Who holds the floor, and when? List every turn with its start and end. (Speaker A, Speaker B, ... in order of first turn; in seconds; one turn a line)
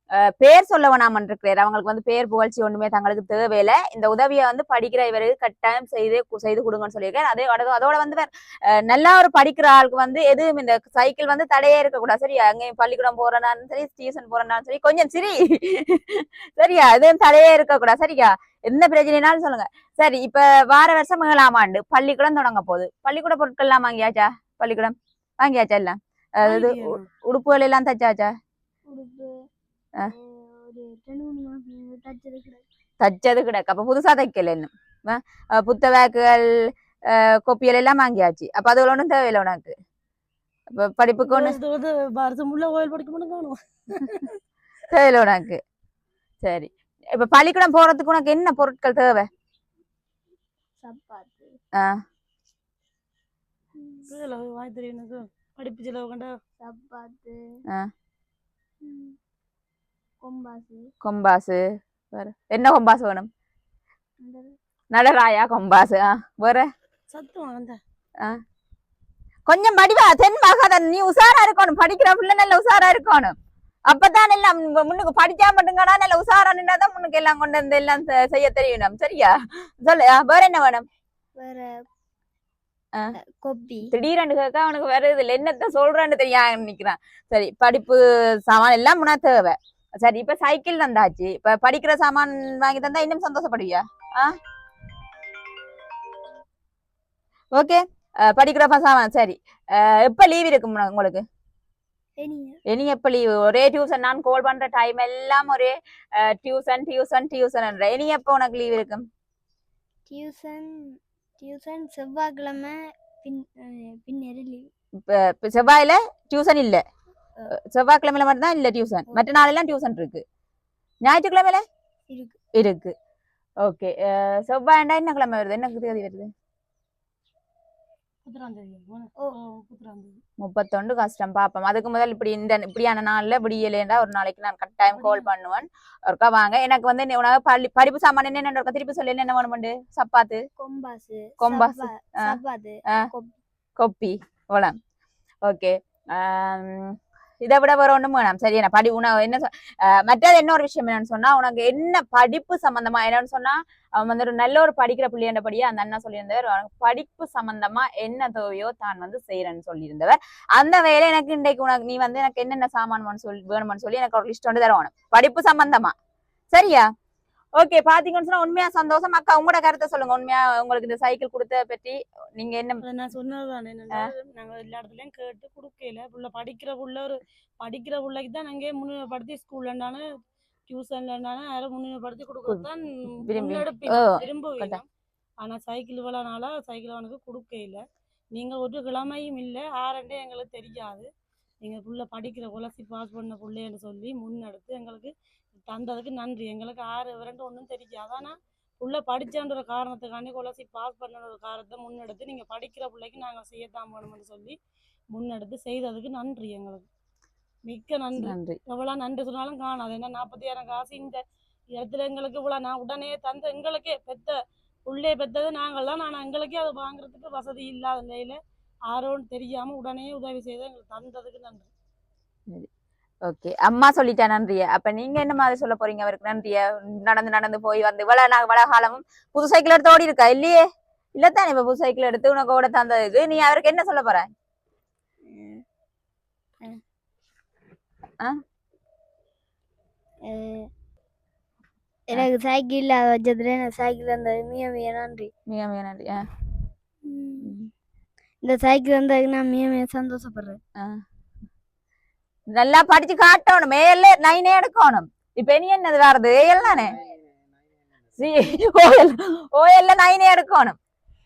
Speaker A: 0.2-28.3
Speaker B: 26.4-27.1
Speaker C: 28.9-29.4
Speaker C: 30.0-32.6
Speaker A: 33.0-39.8
Speaker A: 40.7-41.6
Speaker B: 41.2-44.3
Speaker A: 44.9-45.6
Speaker A: 46.4-49.3
Speaker C: 50.8-51.6
Speaker A: 51.8-52.0
Speaker C: 53.8-54.1
Speaker B: 54.1-56.3
Speaker C: 56.6-57.4
Speaker C: 58.8-59.2
Speaker C: 60.2-60.9
Speaker A: 61.0-63.3
Speaker C: 64.2-64.6
Speaker A: 64.9-66.7
Speaker B: 67.1-67.8
Speaker A: 69.5-73.3
Speaker A: 73.9-80.8
Speaker C: 81.4-81.9
Speaker C: 83.2-83.9
Speaker A: 83.9-94.4
Speaker A: 97.5-101.2
Speaker C: 102.2-102.6
Speaker A: 102.7-109.1
Speaker C: 110.1-114.7
Speaker A: 115.0-116.8
Speaker A: 117.5-120.2
Speaker A: 121.0-121.6
Speaker C: 122.1-122.4
Speaker A: 122.6-123.0
Speaker A: 123.6-126.3
Speaker B: 128.2-130.2
Speaker A: 130.4-140.4
Speaker B: 134.9-135.3
Speaker C: 140.6-143.4
Speaker A: 141.4-142.4
Speaker A: 143.8-144.8
Speaker A: 145.4-165.9
Speaker A: 166.5-166.9
Speaker A: 167.6-172.8
Speaker B: 172.8-180.0
Speaker B: 180.7-184.8
Speaker A: 183.2-184.8
Speaker B: 185.4-187.8
Speaker B: 188.3-191.1
Speaker B: 191.6-204.6
Speaker B: 205.1-206.9
Speaker B: 207.7-211.2
Speaker A: 208.2-208.6
Speaker B: 211.7-214.4
Speaker B: 214.9-218.4
Speaker B: 218.9-221.7
Speaker A: 223.3-230.7
Speaker A: 231.2-234.3
Speaker C: 235.2-235.6
Speaker C: 240.2-240.7
Speaker C: 242.1-245.3
Speaker A: 245.5-246.2
Speaker C: 247.0-247.6
Speaker C: 248.4-250.6
Speaker A: 252.5-257.0
Speaker A: 258.2-260.8